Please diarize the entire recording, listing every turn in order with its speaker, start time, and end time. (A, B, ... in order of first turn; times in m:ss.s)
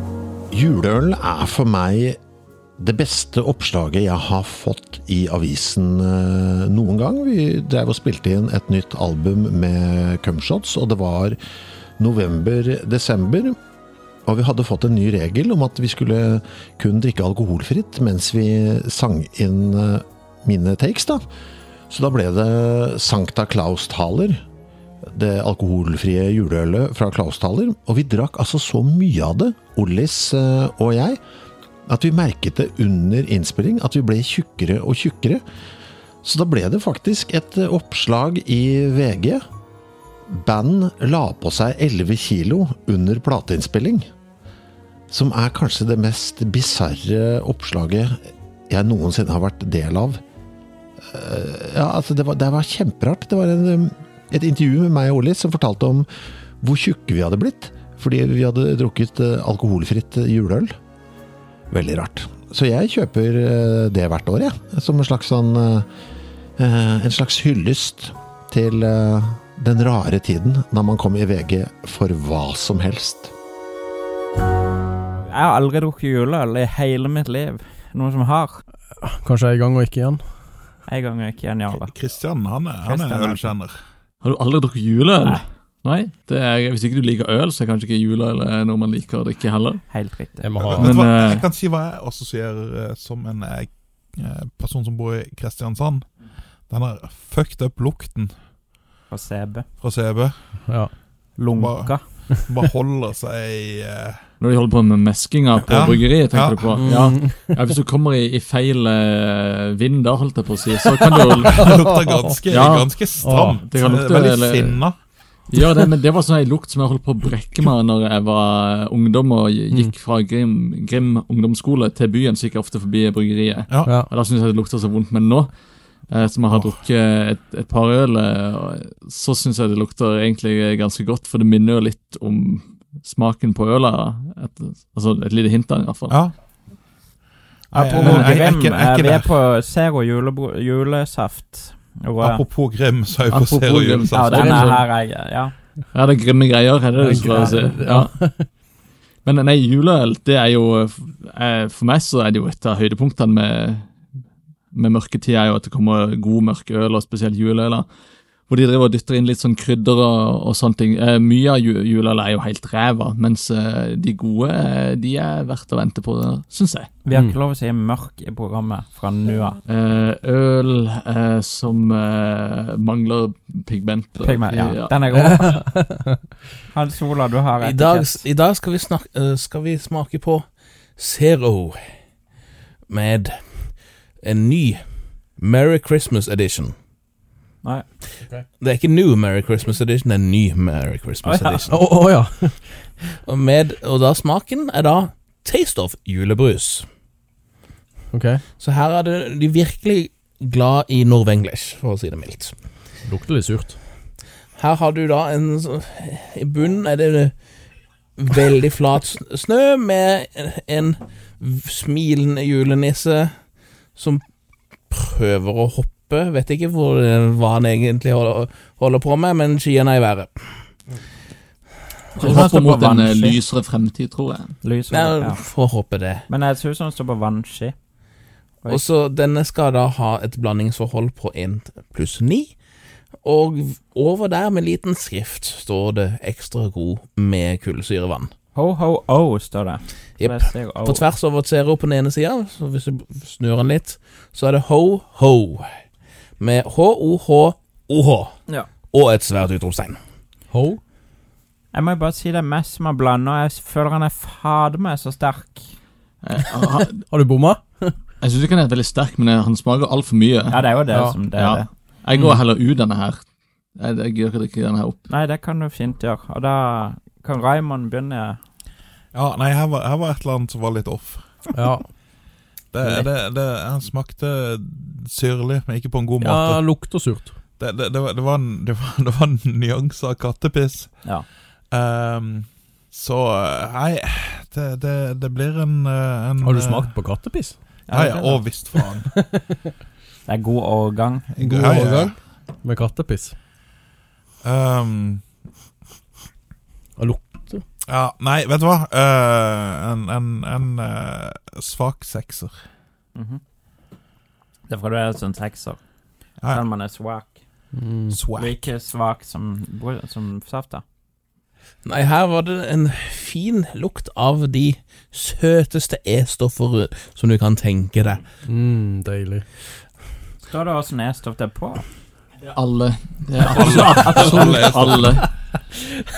0:00.5-0:02.2 A
0:02.8-0:11.4 A
0:12.0-0:13.6 A
0:14.3-0:21.2 A
0:21.9-0:24.4 A
0:25.1-0:31.2 A
0:31.9-0:35.4 A
0:36.2-0:39.4 A
0:40.3-0:44.1 A
0:45.1-0:50.2 A
0:51.1-0:56.1 A
0:56.6-1:00.8 A
1:01.7-1:05.9 A
1:06.6-1:13.3 A
1:15.3-1:18.6 B
1:19.0-1:20.2 C
1:20.9-1:21.9 B
1:21.8-1:23.8 D
1:22.9-1:23.5 B
1:24.2-1:29.8 E
1:29.9-1:30.5 B
1:30.4-1:30.9 C
1:30.6-1:36.1 D
1:30.8-1:31.4 E
1:36.7-1:38.4 D
1:39.1-1:39.6 B
1:39.8-1:40.6 D
1:40.7-1:40.9 C
1:41.4-1:42.0 B
1:41.4-1:44.2 D
1:44.4-1:51.7 E
1:45.7-1:46.8 D
1:46.7-1:47.6 C
1:51.2-1:52.4 C
1:51.5-1:55.0 D
1:52.5-1:54.8 E
1:53.2-1:53.6 C
1:55.5-2:05.5 E
2:03.8-2:04.1 C
2:06.1-2:16.1 E
2:16.1-2:16.4 D
2:17.7-2:19.3 D
2:17.7-2:22.4 B
2:18.0-2:18.4 E
2:22.2-2:24.4 D
2:23.3-2:24.8 E
2:24.1-2:25.5 B
2:25.9-2:28.1 E
2:27.0-2:28.5 C
2:27.2-2:27.6 B
2:29.2-2:34.0 E
2:34.7-2:37.9 E
2:38.5-2:47.0 E
2:47.0-2:49.6 B
2:47.1-2:47.4 C
2:49.7-2:55.0 E
2:54.2-2:55.6 B
2:55.3-2:56.2 C
2:56.7-2:58.2 B
2:57.6-3:00.4 F
3:01.0-3:01.8 F
3:02.9-3:04.8 F
3:05.4-3:06.7 F
3:08.6-3:11.7 F
3:11.2-3:11.6 B
3:11.7-3:12.6 C
3:13.3-3:16.8 F
3:18.1-3:18.4 C
3:18.6-3:22.5 F
3:23.0-3:23.8 C
3:24.6-3:27.3 F
3:28.2-3:33.3 F
3:34.0-3:34.2 F
3:34.9-3:40.6 F
3:42.2-3:44.6 E
3:42.2-3:43.4 B
3:44.6-3:45.4 B
3:44.9-3:46.2 F
3:46.3-3:47.8 B
3:48.7-3:52.6 F
3:53.2-3:58.3 F
3:58.6-4:01.0 B
4:00.2-4:05.7 F
4:06.4-4:08.3 F
4:08.9-4:10.0 F
4:10.5-4:10.8 C
4:11.7-4:15.7 B
4:16.2-4:17.0 E
4:17.1-4:18.0 C
4:18.2-4:20.7 E
4:20.5-4:22.4 B
4:20.9-4:21.2 C
4:21.3-4:23.2 E
4:23.8-4:25.1 E
4:25.1-4:28.4 B
4:29.1-4:31.5 D
4:31.5-4:31.9 C
4:32.7-4:36.7 D
4:36.2-4:37.4 C
4:37.6-4:41.0 D
4:41.7-4:47.0 D
4:46.4-4:47.6 C
4:47.9-4:49.1 D
4:47.9-4:48.5 B
4:48.8-4:49.4 C
4:50.3-4:51.3 B
4:51.4-4:52.2 D
4:51.4-4:53.4 C
4:54.4-4:55.2 D
4:57.0-4:57.6 C
4:57.9-5:02.6 D
5:03.2-5:03.4 B
5:04.7-5:05.8 B
5:06.5-5:07.4 B
5:07.7-5:08.2 C
5:08.1-5:08.7 D
5:08.4-5:10.8 B
5:11.8-5:18.2 F
5:18.4-5:19.4 C
5:20.4-5:21.8 B
5:22.4-5:25.2 E
5:23.4-5:25.2 D